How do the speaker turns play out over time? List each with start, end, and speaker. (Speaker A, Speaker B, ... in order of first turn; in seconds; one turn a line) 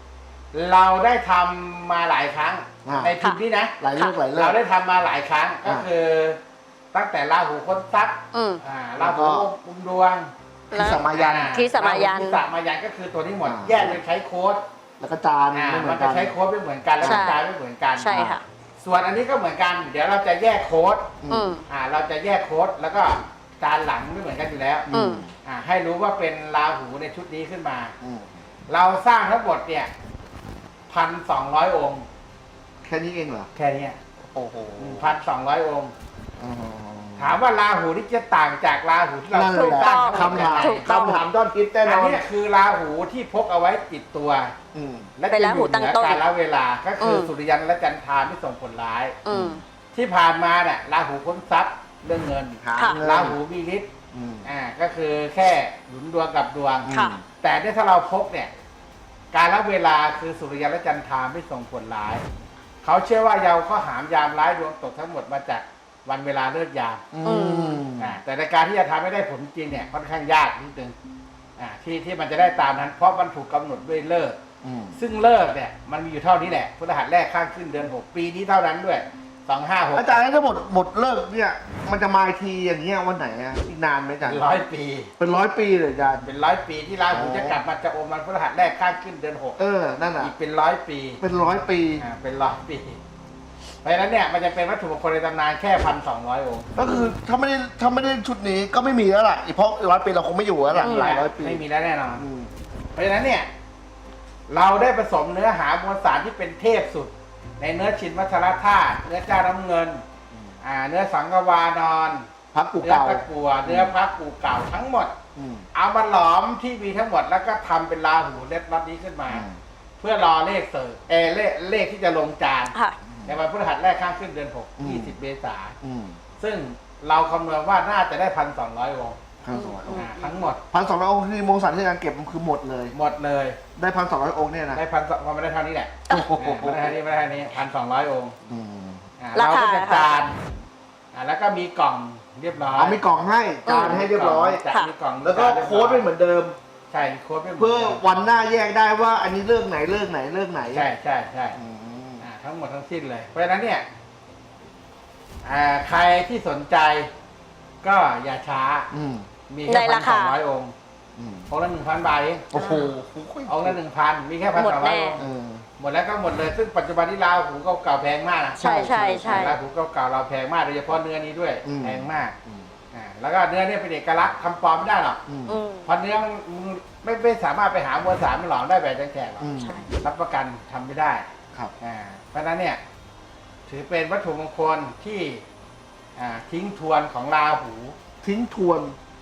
Speaker A: 0.5-3.8
Speaker B: 2.8-3.1
Speaker B: 3.8-4.6
Speaker A: 4.3-6.4
Speaker A: 6.9-10.3
Speaker C: 8.3-8.6
Speaker B: 9.0-9.5
Speaker B: 10.7-11.5
Speaker C: 10.7-12.4
Speaker A: 11.0-14.6
Speaker B: 13.4-14.0
Speaker B: 15.0-16.3
Speaker A: 15.5-18.2
Speaker B: 17.0-17.3
Speaker C: 17.0-17.4
Speaker C: 18.0-18.4
Speaker B: 18.1-18.4
Speaker A: 18.8-21.1
Speaker B: 21.2-21.5
Speaker C: 21.3-21.6
Speaker A: 21.7-24.9
Speaker B: 24.9-25.3
Speaker C: 24.9-25.2
Speaker A: 25.4-27.9
Speaker B: 28.0-28.3
Speaker A: 28.7-29.9
Speaker A: 30.9-32.0
Speaker B: 32.8-33.5
Speaker A: 33.5-34.0
Speaker B: 34.2-35.1
Speaker A: 34.8-35.9
Speaker B: 36.4-37.3
Speaker A: 37.2-41.2
Speaker B: 39.3-42.2
Speaker C: 39.5-41.2
Speaker A: 41.8-44.5
Speaker B: 44.7-45.1
Speaker A: 45.2-49.2
Speaker C: 45.3-46.2
Speaker C: 47.0-47.3
Speaker C: 49.2-49.6
Speaker B: 49.3-49.6
Speaker A: 49.9-53.9
Speaker B: 52.6-53.4
Speaker C: 52.7-53.0
Speaker B: 54.1-54.5
Speaker A: 54.4-56.9
Speaker B: 56.8-57.2
Speaker C: 56.9-57.2
Speaker A: 57.4-58.5
Speaker A: 59.3-62.2
Speaker A: 62.8-67.0
Speaker B: 67.1-68.2
Speaker C: 67.2-67.8
Speaker A: 68.0-71.0
Speaker A: 71.6-74.4
Speaker B: 74.6-75.0
Speaker A: 75.0-80.2
Speaker B: 79.9-84.4
Speaker A: 84.2-85.1
Speaker B: 85.2-86.2
Speaker A: 86.2-89.6
Speaker B: 87.1-87.6
Speaker B: 89.6-90.3
Speaker A: 90.2-91.2
Speaker B: 91.2-92.0
Speaker A: 92.0-93.0
Speaker A: 93.8-97.1
Speaker B: 96.8-101.6
Speaker A: 100.7-102.2
Speaker C: 100.8-101.1
Speaker B: 102.2-102.5
Speaker A: 102.9-103.5
Speaker A: 104.5-110.0
Speaker A: 110.6-112.3
Speaker B: 112.5-113.9
Speaker A: 112.8-115.2
Speaker B: 115.3-115.7
Speaker A: 115.7-119.4
Speaker B: 119.3-119.6
Speaker A: 120.0-122.7
Speaker B: 123.1-123.4
Speaker A: 123.2-125.8
Speaker B: 124.8-125.1
Speaker B: 125.8-126.2
Speaker A: 126.4-129.2
Speaker B: 129.4-130.1
Speaker C: 129.5-130.1
Speaker A: 129.9-130.6
Speaker B: 130.7-132.9
Speaker A: 132.9-133.6
Speaker B: 133.8-134.8
Speaker A: 134.7-138.3
Speaker B: 136.1-137.0
Speaker B: 138.5-139.0
Speaker A: 139.2-140.4
Speaker C: 139.3-140.1
Speaker A: 141.1-143.0
Speaker B: 142.8-144.6
Speaker C: 143.7-144.0
Speaker A: 143.7-146.1
Speaker B: 145.2-146.6
Speaker A: 146.9-148.0
Speaker B: 147.6-150.8
Speaker A: 150.7-151.6
Speaker B: 151.5-152.2
Speaker A: 152.2-153.9
Speaker A: 155.4-157.1
Speaker A: 157.8-158.9
Speaker B: 158.9-159.3
Speaker A: 159.5-160.7
Speaker C: 159.7-160.3
Speaker B: 161.2-161.5
Speaker A: 161.5-162.4
Speaker B: 162.5-163.8
Speaker C: 162.5-162.9
Speaker A: 163.5-165.2
Speaker C: 164.5-165.2
Speaker B: 165.2-165.6
Speaker A: 165.8-172.3
Speaker C: 168.6-169.6
Speaker B: 168.6-169.5
Speaker B: 171.6-172.7
Speaker A: 172.9-175.2
Speaker B: 175.3-175.6
Speaker C: 175.5-175.9
Speaker A: 175.8-181.3
Speaker B: 179.4-179.8
Speaker C: 179.6-179.9
Speaker A: 181.8-182.8
Speaker A: 183.7-185.4
Speaker A: 186.2-187.9
Speaker B: 188.2-188.9